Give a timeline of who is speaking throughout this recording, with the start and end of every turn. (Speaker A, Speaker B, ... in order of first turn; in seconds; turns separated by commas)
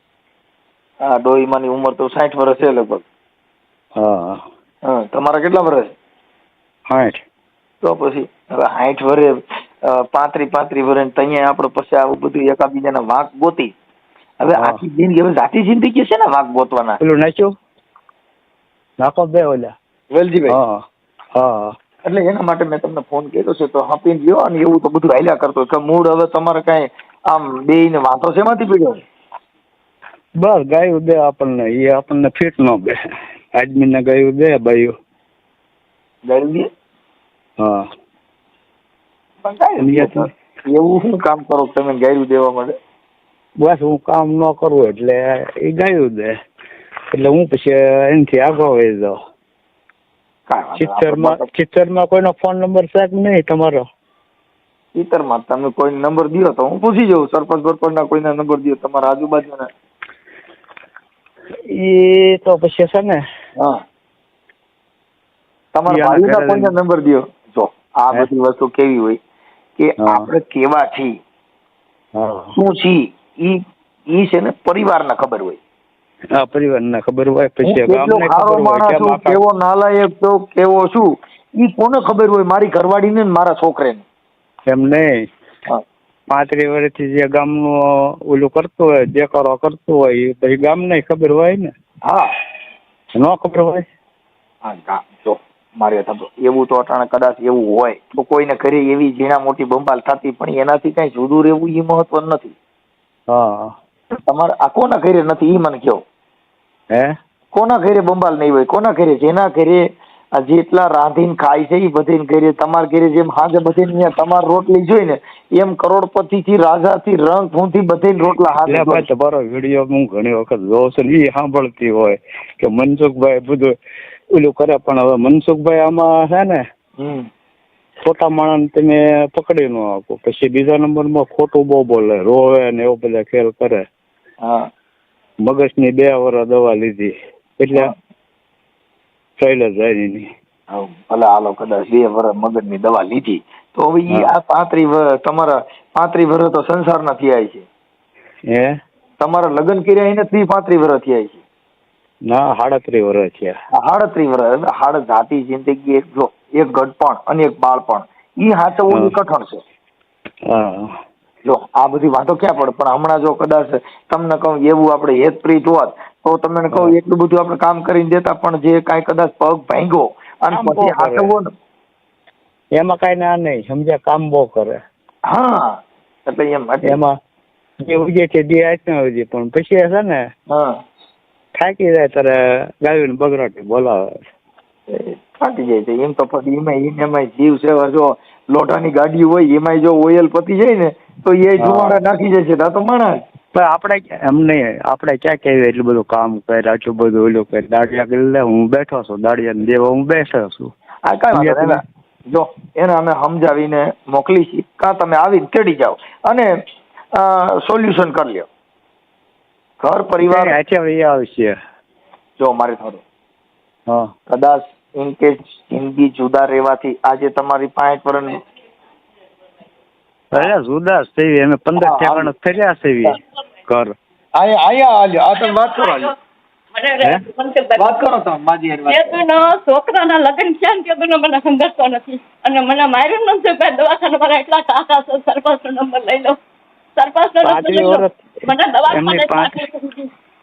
Speaker A: 1.0-3.0, Speaker B: 4.0-4.4, Speaker A: 4.9-5.9, Speaker B: 6.9-7.2, Speaker A: 7.8-9.3, Speaker A: 9.9-13.7, Speaker A: 14.4-17.0, Speaker B: 14.6-14.8, Speaker B: 17.0-17.5, Speaker B: 19.0-19.7, Speaker A: 20.1-20.6, Speaker B: 20.5-20.8, Speaker B: 21.4-21.7, Speaker A: 22.1-29.0, Speaker B: 30.4-33.0, Speaker B: 33.6-34.9, Speaker A: 36.3-36.7, Speaker B: 37.6-37.9, Speaker A: 39.4-42.7, Speaker B: 39.8-40.3, Speaker B: 43.6-46.3, Speaker B: 47.1-49.1, Speaker A: 50.5-51.5, Speaker B: 50.8-53.9, Speaker A: 55.0-59.7, Speaker B: 61.7-63.2, Speaker A: 65.7-69.2, Speaker B: 65.9-66.7, Speaker A: 69.8-71.1, Speaker B: 70.0-70.3, Speaker B: 72.2-72.5, Speaker A: 72.6-73.6, Speaker A: 74.2-75.6, Speaker B: 76.4-79.4, Speaker A: 77.6-81.1, Speaker A: 81.6-84.0, Speaker B: 84.7-85.1, Speaker B: 86.3-91.7, Speaker B: 93.2-93.9, Speaker A: 94.6-102.5, Speaker B: 103.3-103.8, Speaker A: 104.3-106.0, Speaker A: 107.5-109.8, Speaker A: 110.4-119.0, Speaker B: 118.7-123.8, Speaker B: 124.3-126.6, Speaker A: 127.0-127.2, Speaker B: 128.1-133.8, Speaker B: 135.4-137.9, Speaker B: 139.4-140.3, Speaker A: 140.7-147.7, Speaker B: 148.5-148.8, Speaker A: 149.2-151.4, Speaker B: 152.3-153.5, Speaker A: 153.8-159.6, Speaker B: 160.5-160.9, Speaker A: 161.4-171.5, Speaker B: 170.5-171.3, Speaker B: 172.8-174.8, Speaker A: 175.3-175.7, Speaker A: 176.3-177.0, Speaker B: 176.8-177.2, Speaker B: 177.8-180.2, Speaker B: 181.6-184.1, Speaker A: 184.9-193.2, Speaker B: 191.6-192.0, Speaker B: 193.5-200.7, Speaker A: 201.1-201.8, Speaker B: 201.3-201.8, Speaker A: 202.3-206.5, Speaker A: 207.2-208.5, Speaker A: 209.8-210.6, Speaker B: 210.2-211.6, Speaker A: 212.4-213.0, Speaker A: 214.3-218.4, Speaker B: 220.3-223.9, Speaker A: 221.8-222.3, Speaker A: 224.4-226.1, Speaker C: 225.4-226.1, Speaker C: 226.8-228.0, Speaker A: 227.8-229.2, Speaker C: 228.9-236.4, Speaker C: 237.0-240.1, Speaker B: 237.4-238.3, Speaker B: 238.9-239.5